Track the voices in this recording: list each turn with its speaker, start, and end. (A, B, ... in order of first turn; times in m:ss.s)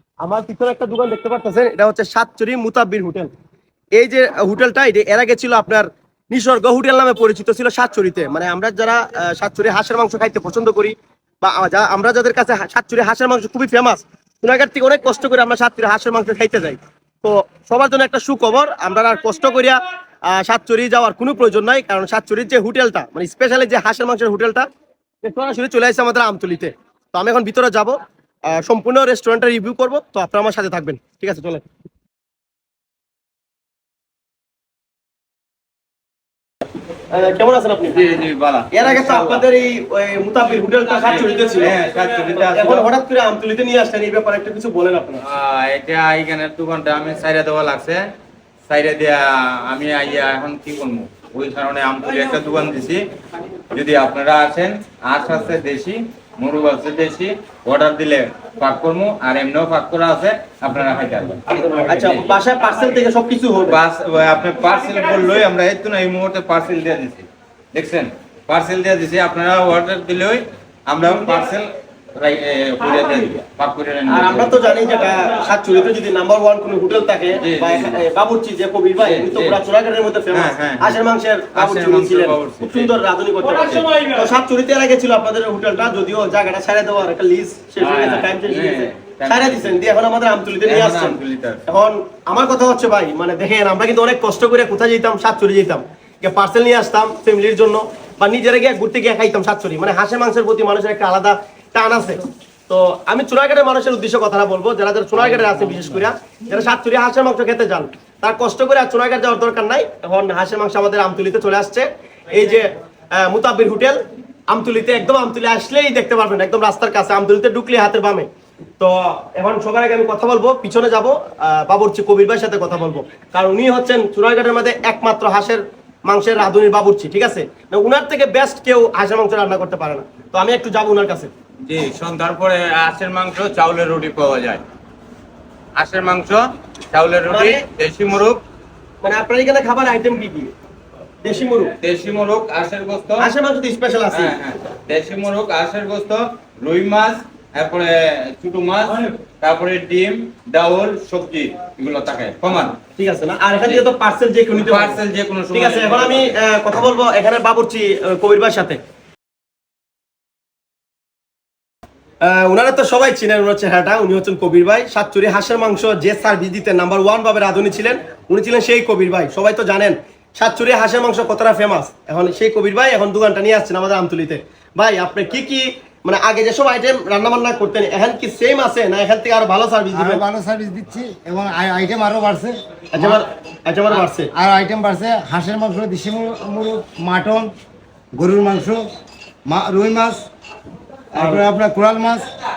0:00.2-0:03.3 A
0:04.0-0:24.7 A
0:25.2-0:28.0 A
0:28.5-0:31.6 A
0:37.1-0:38.0 A
0:37.9-0:39.4 B
0:38.7-0:41.7 A
0:41.1-0:42.9 B
0:42.5-0:45.2 A
0:45.2-0:48.0 B
0:48.7-0:53.0 B
0:53.7-1:02.3 B
1:01.9-1:03.8 A
1:03.7-1:14.6 B
1:14.1-1:58.3 A
1:17.3-1:18.0 B
1:19.0-1:19.6 B
1:20.3-1:21.0 B
1:21.5-1:22.9 B
1:23.4-1:24.1 B
1:27.8-1:29.8 B
1:30.6-1:31.7 B
1:58.8-2:11.3 A
2:11.6-2:14.6 B
2:15.8-2:18.4 B
2:17.3-2:17.6 A
2:19.0-2:20.5 A
2:21.2-2:21.7 A
2:21.8-2:23.3 B
2:23.2-2:24.4 A
2:24.1-2:32.8 B
2:33.0-2:35.0 A
2:34.5-2:36.4 B
2:35.5-2:38.8 A
2:42.2-3:00.2 A
2:59.9-3:03.2 C
3:02.9-3:04.3 A
3:04.3-3:07.5 C
3:08.1-3:08.8 C
3:09.5-3:10.3 C
3:11.1-3:11.4 A
3:11.1-3:12.3 C